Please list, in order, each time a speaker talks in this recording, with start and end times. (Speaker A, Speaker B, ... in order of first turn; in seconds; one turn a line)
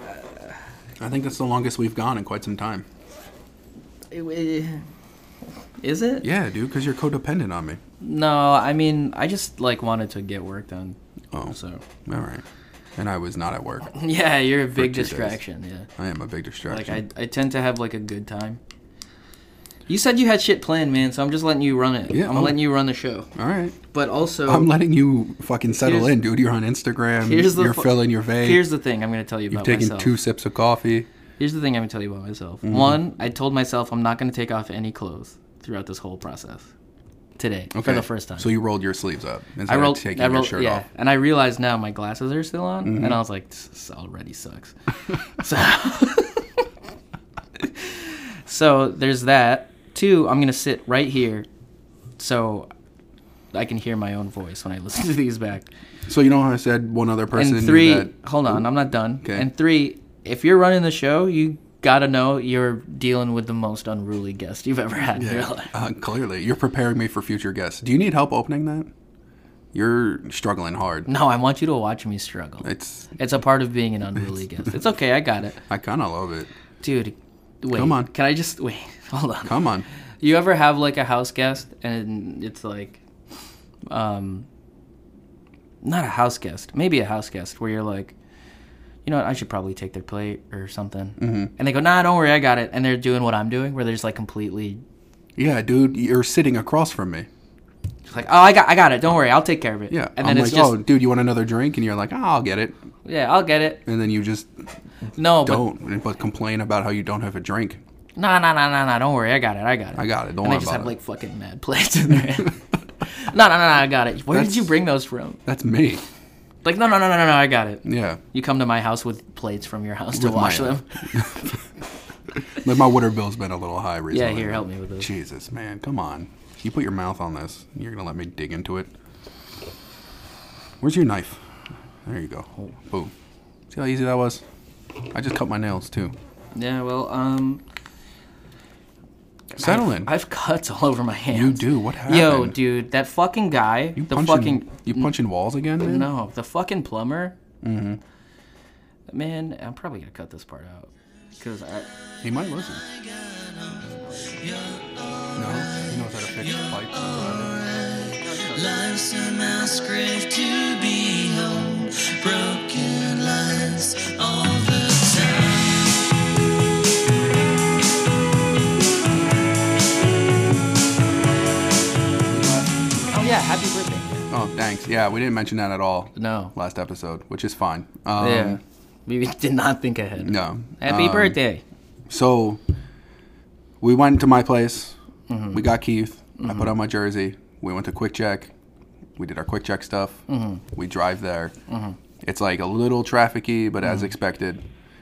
Speaker A: 1.0-2.9
Speaker B: 4.1-4.8
Speaker B: 5.8-6.3
Speaker A: 6.2-7.8
Speaker B: 8.0-11.0
Speaker A: 11.3-12.4
Speaker B: 11.5-11.8
Speaker A: 13.0-13.9
Speaker B: 13.9-15.9
Speaker A: 14.8-15.4
Speaker A: 16.0-17.0
Speaker B: 16.7-18.6
Speaker B: 19.9-23.3
Speaker A: 22.1-22.6
Speaker A: 23.3-23.8
Speaker B: 23.9-24.7
Speaker A: 24.5-28.6
Speaker B: 25.7-26.1
Speaker B: 27.2-30.2
Speaker A: 29.5-31.1
Speaker B: 31.4-36.7
Speaker A: 32.6-33.0
Speaker B: 37.4-38.5
Speaker A: 37.7-40.9
Speaker B: 39.7-44.7
Speaker A: 42.8-43.2
Speaker B: 45.3-46.6
Speaker B: 47.6-51.5
Speaker B: 52.2-52.7
Speaker B: 53.5-55.7
Speaker A: 56.1-58.7
Speaker B: 57.3-65.7
Speaker A: 59.2-59.5
Speaker A: 65.2-68.9
Speaker A: 69.7-71.1
Speaker B: 71.1-75.6
Speaker A: 72.6-73.1
Speaker A: 75.7-76.5
Speaker B: 76.8-79.6
Speaker A: 77.7-78.1
Speaker A: 79.5-79.8
Speaker B: 80.2-83.0
Speaker B: 83.9-84.5
Speaker B: 85.8-88.2
Speaker B: 89.0-94.8
Speaker A: 91.2-91.5
Speaker A: 95.4-97.3
Speaker B: 98.1-100.8
Speaker A: 99.9-102.8
Speaker B: 103.0-103.8
Speaker A: 103.9-104.5
Speaker B: 105.2-105.7
Speaker A: 105.3-107.8
Speaker B: 108.2-115.4
Speaker A: 110.0-110.9
Speaker A: 114.3-114.8
Speaker A: 115.5-116.0
Speaker B: 116.6-121.2
Speaker A: 117.8-118.2
Speaker A: 120.1-121.6
Speaker A: 122.5-128.9
Speaker B: 124.1-125.1
Speaker A: 130.8-131.4
Speaker A: 132.1-133.1
Speaker A: 133.7-134.4
Speaker A: 135.1-136.1
Speaker B: 136.5-137.6
Speaker B: 139.5-145.1
Speaker A: 139.6-140.1
Speaker A: 141.3-142.6
Speaker A: 144.0-146.1
Speaker B: 145.8-147.4
Speaker A: 147.6-148.0
Speaker B: 149.1-151.9
Speaker A: 152.2-152.8
Speaker C: 152.8-166.1
Speaker B: 154.0-154.3
Speaker A: 155.4-157.7
Speaker B: 158.0-158.8
Speaker A: 172.3-172.7
Speaker B: 173.1-174.3
Speaker A: 174.3-178.6
Speaker B: 176.2-176.5
Speaker B: 178.2-181.6
Speaker A: 180.2-181.4
Speaker A: 182.1-182.6
Speaker A: 183.8-185.0
Speaker B: 185.3-185.6
Speaker A: 185.5-188.5
Speaker B: 186.4-186.7
Speaker A: 189.2-191.5
Speaker B: 190.3-190.6
Speaker B: 191.7-192.0
Speaker A: 192.2-194.6